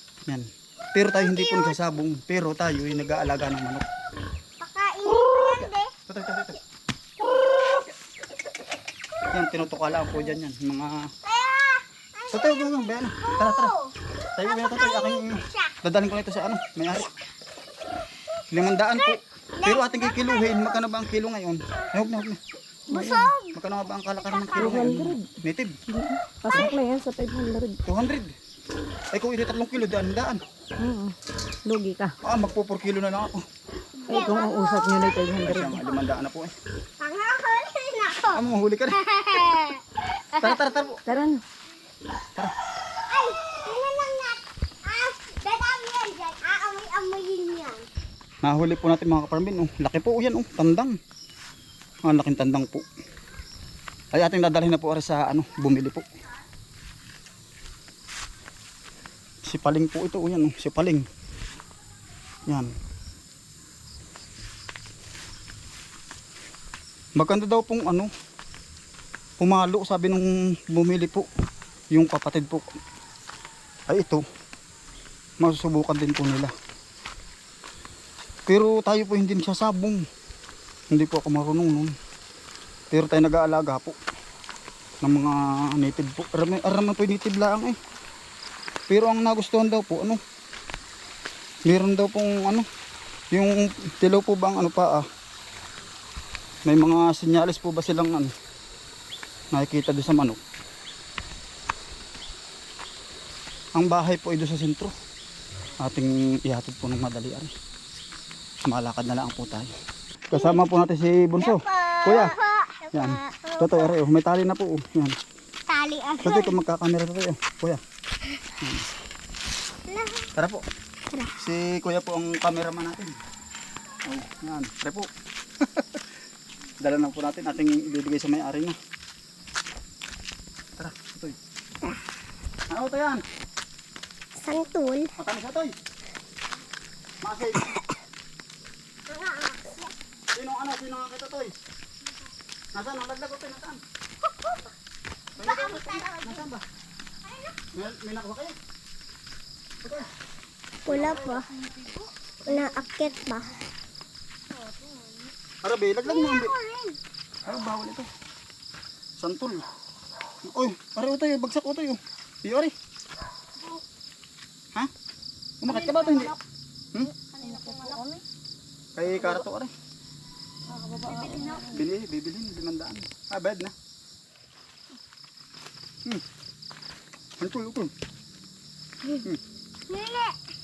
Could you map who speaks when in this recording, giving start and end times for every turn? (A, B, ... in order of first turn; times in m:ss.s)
0:00.3-0:03.8 A
0:04.6-0:05.9 B
0:06.1-0:06.6 A
0:09.3-0:11.1 A
0:11.2-0:13.9 B
0:12.3-0:13.8 A
0:14.4-0:17.1 A
0:14.4-0:15.7 B
0:18.5-0:22.4 A
0:18.9-0:20.8 B
0:22.9-0:23.3 C
0:22.9-0:23.6 B
0:23.0-0:25.8 A
0:24.2-0:24.9 B
0:24.6-0:25.3 C
0:25.9-0:27.8 C
0:27.8-0:28.4 A
0:29.1-0:30.4 A
0:30.8-0:31.2 C
0:31.7-0:32.2 C
0:32.2-0:33.5 A
0:34.0-0:34.9 B
0:34.1-0:35.8 C
0:35.4-0:36.6 A
0:37.0-0:40.8 B
0:38.3-0:39.0 A
0:40.4-0:41.0 A
0:41.1-0:41.4 C
0:43.1-0:47.9 B
0:48.4-0:51.0 A
0:52.1-0:52.9 A
0:54.1-0:56.0 A
0:59.4-1:01.1 A
1:02.5-1:02.7 A
1:07.2-1:08.1 A
1:09.4-1:11.3 A
1:11.9-1:12.8 A
1:13.9-1:14.2 A
1:15.4-1:16.5 A
1:18.5-1:20.0 A
1:20.9-1:22.0 A
1:22.9-1:24.0 A
1:25.0-1:27.8 A
1:28.9-1:30.2 A
1:31.6-1:32.7 A
1:33.3-1:35.1 A
1:36.6-1:38.3 A
1:39.5-1:40.4 A
1:43.8-1:45.0 A
1:45.8-1:47.5 A
1:48.7-1:49.7 A
1:50.3-1:52.4 A
1:50.3-1:50.6 B
1:51.4-1:53.9 B
1:52.9-1:55.2 A
1:55.7-1:56.6 B
1:56.2-1:57.8 A
1:58.6-1:58.9 A
1:59.9-2:00.3 B
2:00.4-2:00.6 A
2:01.4-2:03.1 A
2:04.1-2:05.1 A
2:05.6-2:06.1 A
2:06.8-2:08.8 A
2:10.8-2:11.4 A
2:12.7-2:13.2 A
2:14.4-2:15.1 B
2:15.2-2:15.8 A
2:17.2-2:17.7 A
2:19.1-2:19.9 B
2:20.3-2:21.5 A
2:22.7-2:23.8 A
2:24.3-2:24.6 B
2:25.4-2:26.6 A
2:25.4-2:26.4 B
2:27.2-2:27.6 B
2:27.7-2:28.6 A
2:29.8-2:30.1 A
2:30.9-2:31.5 B
2:30.9-2:31.4 A
2:32.5-2:33.6 B
2:35.6-2:36.5 A
2:36.1-2:37.0 B
2:37.4-2:38.1 A
2:39.2-2:39.7 A
2:40.4-2:42.7 A
2:45.6-2:46.4 A
2:45.7-2:46.3 C
2:47.3-2:48.0 B
2:47.4-2:48.2 C
2:49.0-2:49.7 A
2:50.7-2:51.7 C
2:51.2-2:51.6 B
2:51.6-2:53.7 A
2:57.4-2:57.9 A
2:59.9-3:00.4 B